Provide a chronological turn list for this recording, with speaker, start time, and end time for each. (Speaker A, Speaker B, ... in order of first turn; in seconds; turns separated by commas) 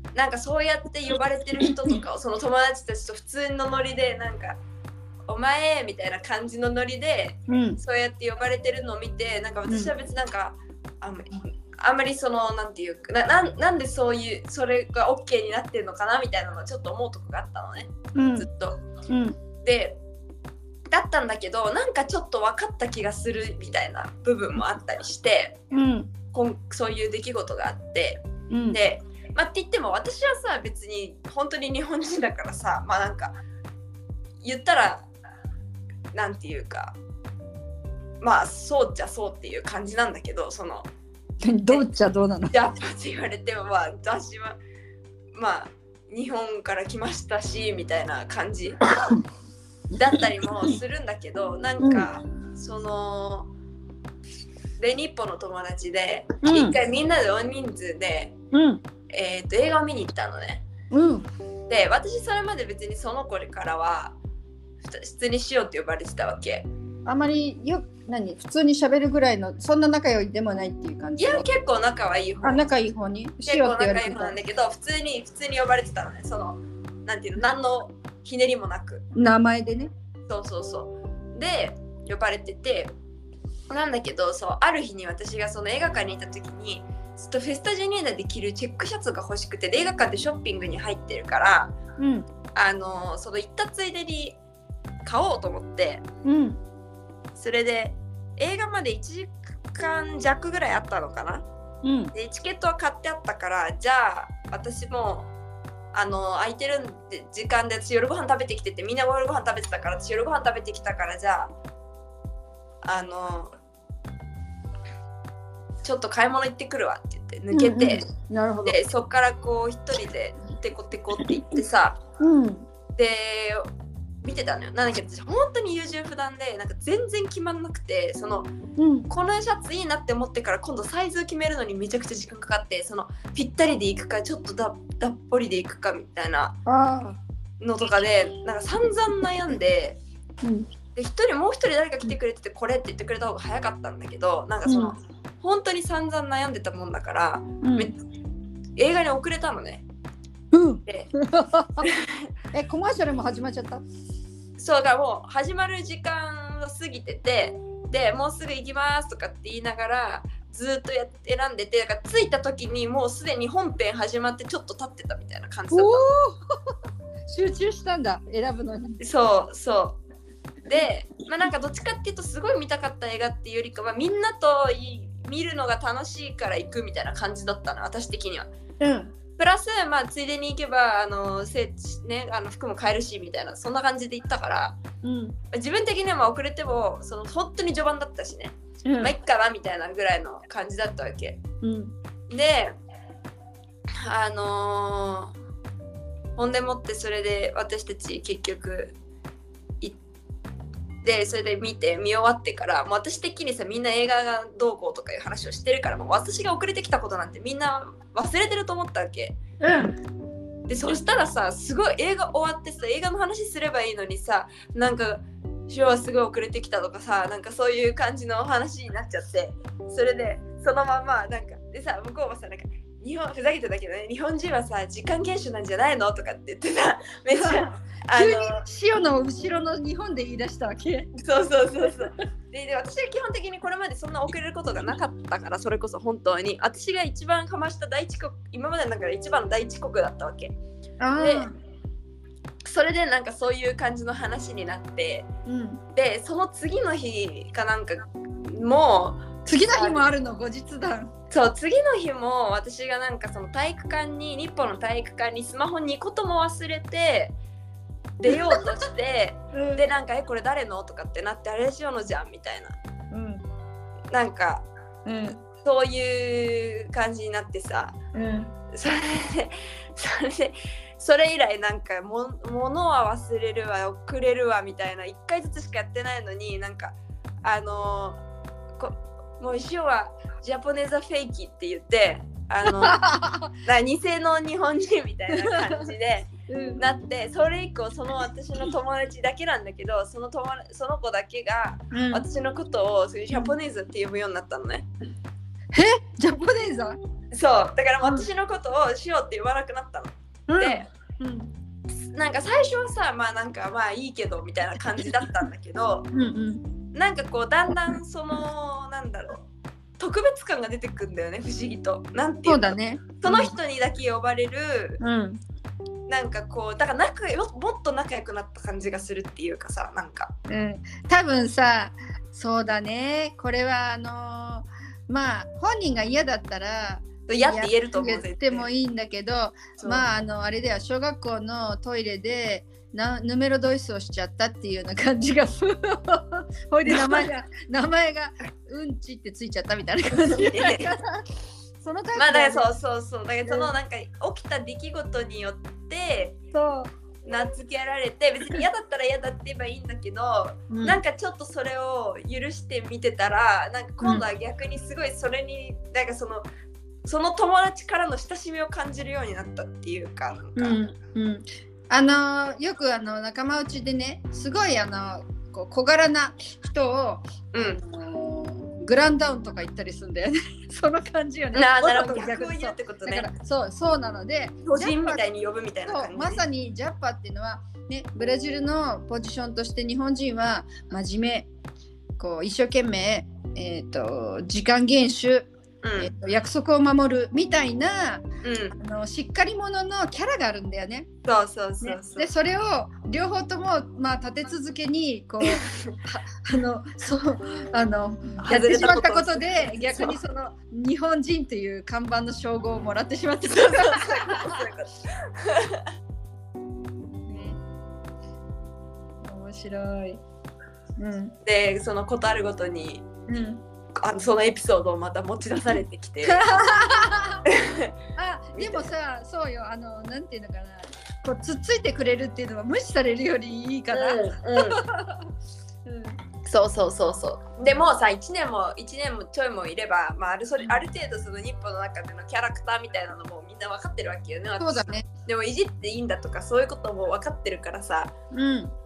Speaker A: 0.1-4.6, Speaker A: 5.3-18.8, Speaker B: 7.5-7.8, Speaker B: 18.1-18.5, Speaker B: 19.1-19.4, Speaker A: 19.6-20.0, Speaker A: 20.9-25.6, Speaker B: 25.7-26.1, Speaker A: 26.3-33.4, Speaker B: 28.5-28.8, Speaker A: 34.4-35.0, Speaker A: 36.1-37.0, Speaker A: 38.2-40.9, Speaker B: 41.4-42.6, Speaker A: 42.5-44.6, Speaker A: 45.3-48.8, Speaker A: 50.0-53.5, Speaker B: 51.8-52.1, Speaker A: 54.8-58.3, Speaker B: 56.4-56.8, Speaker B: 58.5-58.8, Speaker A: 59.1-60.6, Speaker B: 60.9-61.2, Speaker A: 61.7-64.2, Speaker A: 64.8-66.7, Speaker B: 67.0-71.5, Speaker A: 71.2-72.7, Speaker B: 72.4-74.4, Speaker A: 73.5-79.0, Speaker B: 79.1-79.9, Speaker A: 80.3-82.9, Speaker A: 83.7-91.7, Speaker B: 92.0-92.2, Speaker A: 92.5-94.4, Speaker A: 95.0-96.0, Speaker B: 96.2-96.6, Speaker A: 97.3-101.4, Speaker B: 101.8-102.1, Speaker A: 102.1-105.3, Speaker A: 105.9-111.5, Speaker A: 112.8-113.5, Speaker A: 115.8-118.0, Speaker B: 117.5-118.8, Speaker A: 118.6-122.0, Speaker B: 122.2-122.7, Speaker A: 123.0-123.7, Speaker A: 124.2-128.5, Speaker B: 128.8-129.1, Speaker A: 129.1-136.6, Speaker B: 136.7-137.2, Speaker A: 137.6-140.0, Speaker B: 140.4-140.7, Speaker A: 140.9-147.9, Speaker B: 144.6-144.9, Speaker B: 147.6-147.9, Speaker A: 148.8-149.8, Speaker B: 150.5-151.9, Speaker A: 151.8-152.3, Speaker B: 152.5-153.8, Speaker A: 154.6-166.1, Speaker B: 165.7-166.7, Speaker B: 167.3-169.0, Speaker A: 169.0-170.0, Speaker A: 170.7-178.5, Speaker B: 178.8-179.1, Speaker A: 179.4-184.8, Speaker B: 185.0-185.3, Speaker A: 185.5-191.4, Speaker B: 188.8-189.1, Speaker B: 191.6-191.9, Speaker A: 192.3-192.7, Speaker A: 194.0-195.3, Speaker A: 196.3-198.9, Speaker A: 201.0-209.4, Speaker B: 209.6-209.9, Speaker A: 210.7-228.6, Speaker B: 227.3-231.1, Speaker A: 231.1-240.6, Speaker B: 241.0-241.5, Speaker A: 241.2-241.5, Speaker A: 242.6-245.3, Speaker B: 245.4-245.8, Speaker A: 245.9-250.0, Speaker B: 249.4-251.1, Speaker A: 251.3-257.3, Speaker A: 258.2-262.8, Speaker B: 258.3-258.8, Speaker B: 259.5-259.9, Speaker B: 263.1-263.4, Speaker A: 264.1-264.7, Speaker B: 265.1-265.4, Speaker A: 265.6-268.0, Speaker B: 268.1-268.5, Speaker A: 268.7-278.2, Speaker A: 278.8-283.0, Speaker B: 282.6-283.5, Speaker A: 283.6-294.9, Speaker B: 285.3-285.9, Speaker B: 286.5-286.8, Speaker B: 291.9-292.2, Speaker B: 295.7-297.0, Speaker A: 297.3-300.9, Speaker B: 300.5-301.5, Speaker A: 302.1-306.1, Speaker B: 306.1-306.6, Speaker A: 306.9-309.4, Speaker A: 310.0-315.0, Speaker B: 312.4-313.5, Speaker B: 315.0-315.4, Speaker A: 316.1-320.3, Speaker B: 320.5-341.2, Speaker A: 327.3-328.7, Speaker A: 329.8-330.1, Speaker A: 336.9-337.3, Speaker A: 340.2-340.9, Speaker B: 341.8-342.7, Speaker A: 342.1-346.4, Speaker B: 346.5-346.9, Speaker A: 347.2-356.4, Speaker B: 350.7-351.0, Speaker A: 357.0-360.8, Speaker B: 360.6-375.2, Speaker A: 367.5-367.8, Speaker A: 371.5-373.3, Speaker A: 374.6-376.4, Speaker B: 375.9-381.5, Speaker B: 382.2-391.1, Speaker A: 385.8-386.1, Speaker A: 388.4-388.7, Speaker A: 391.2-392.3, Speaker B: 391.8-404.7, Speaker A: 395.4-395.9, Speaker A: 398.4-400.2, Speaker A: 403.5-405.9, Speaker B: 407.3-407.6, Speaker B: 409.2-410.2, Speaker B: 411.0-411.4, Speaker A: 411.4-413.1, Speaker B: 413.3-413.6, Speaker A: 413.9-416.4, Speaker B: 416.2-417.4, Speaker A: 417.4-417.9, Speaker B: 418.1-425.3, Speaker A: 418.6-418.9, Speaker A: 423.9-424.8, Speaker B: 425.9-426.2, Speaker A: 426.4-438.1, Speaker B: 434.6-435.1, Speaker B: 438.3-438.7